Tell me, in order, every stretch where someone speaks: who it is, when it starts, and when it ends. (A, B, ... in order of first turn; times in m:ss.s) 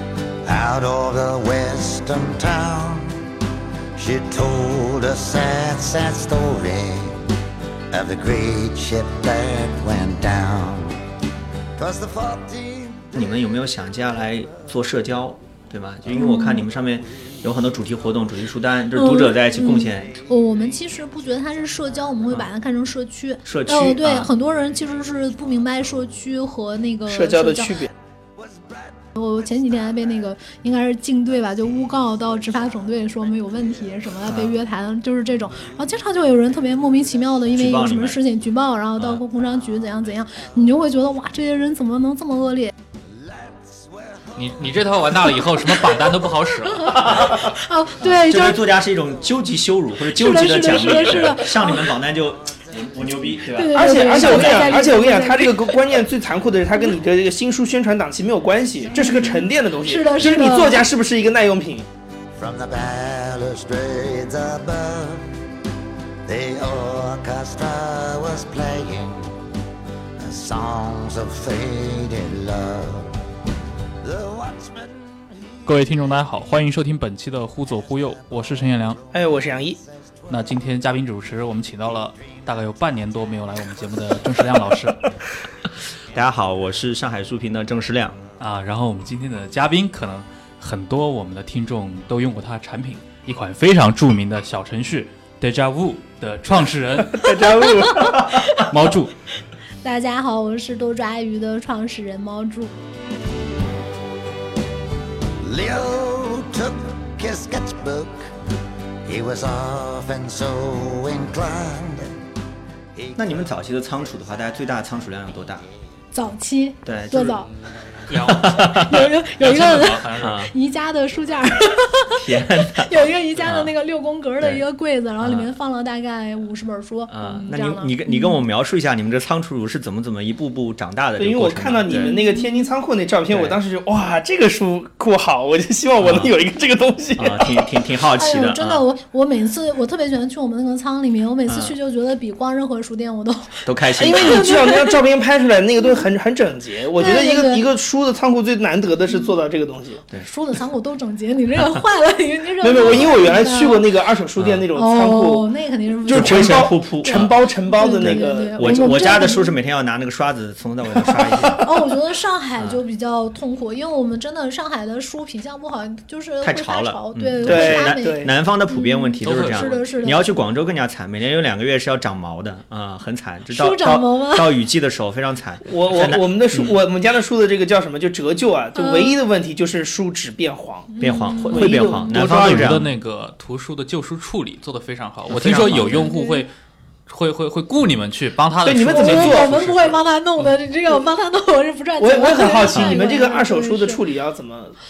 0:00.4-0:03.2 A
0:04.0-0:07.3 A
0:07.9-0:11.0 A
0:11.8-0:13.3 A
0:13.2-0:20.2 B
0:16.1-0:16.7 C
0:18.9-0:27.9 C
0:23.5-0:24.3 B
0:27.1-0:27.9 D
0:28.4-0:28.9 A
0:29.2-0:42.7 C
0:34.3-0:34.6 B
0:37.6-0:38.2 B
0:43.2-0:45.9 A
0:44.4-0:47.1 E
0:46.7-0:48.7 C
0:46.9-0:54.8 B
0:50.1-0:51.9 C
0:52.5-0:53.3 A
0:53.4-0:56.0 C
0:53.6-1:01.9 D
0:58.9-1:00.9 C
1:02.4-1:05.4 A
1:06.2-1:09.4 A
1:10.2-1:13.2 A
1:14.0-1:15.8 A
1:15.6-1:19.0 E
1:18.5-1:20.4 A
1:19.1-1:19.8 D
1:20.3-1:25.1 E
1:26.1-1:28.2 B
1:28.4-1:37.6 E
1:37.1-1:38.1 D
1:37.4-1:38.7 C
1:38.1-1:38.6 B
1:38.5-1:39.1 E
1:39.8-1:42.7 C
1:45.4-1:48.3 A
1:49.0-1:52.1 A
1:53.0-1:53.5 A
1:53.2-1:55.6 B
1:56.1-1:57.5 C
1:56.8-1:57.4 B
1:57.4-2:00.4 E
1:58.1-1:59.1 B
1:58.4-2:08.4 C
2:00.2-2:00.5 B
2:02.1-2:03.7 B
2:05.2-2:05.5 B
2:07.1-2:12.2 B
2:11.2-2:17.6 D
2:11.9-2:12.7 C
2:13.3-2:13.6 B
2:16.0-2:16.3 B
2:17.2-2:18.8 B
2:17.6-2:25.0 C
2:21.5-2:21.8 B
2:23.6-2:24.6 B
2:24.0-2:30.0 D
2:27.0-2:27.7 C
2:30.2-2:33.9 C
2:32.6-2:35.5 D
2:32.8-2:33.4 B
2:34.4-2:34.7 B
2:34.7-2:39.5 C
2:36.0-2:39.3 D
2:36.1-2:37.4 B
2:38.0-2:41.6 B
2:41.0-2:41.6 D
2:41.6-2:50.2 C
2:46.4-2:56.8 B
2:47.4-2:48.3 D
2:49.2-2:50.0 E
2:53.5-2:54.6 C
2:55.7-3:02.7 D
2:58.8-2:59.2 C
3:00.9-3:02.3 C
3:01.0-3:03.0 B
3:02.2-3:06.5 E
3:05.3-3:06.1 B
3:05.7-3:06.4 C
3:07.1-3:10.4 E
3:08.6-3:09.6 D
3:08.9-3:14.0 C
3:12.0-3:14.8 D
3:12.7-3:13.0 B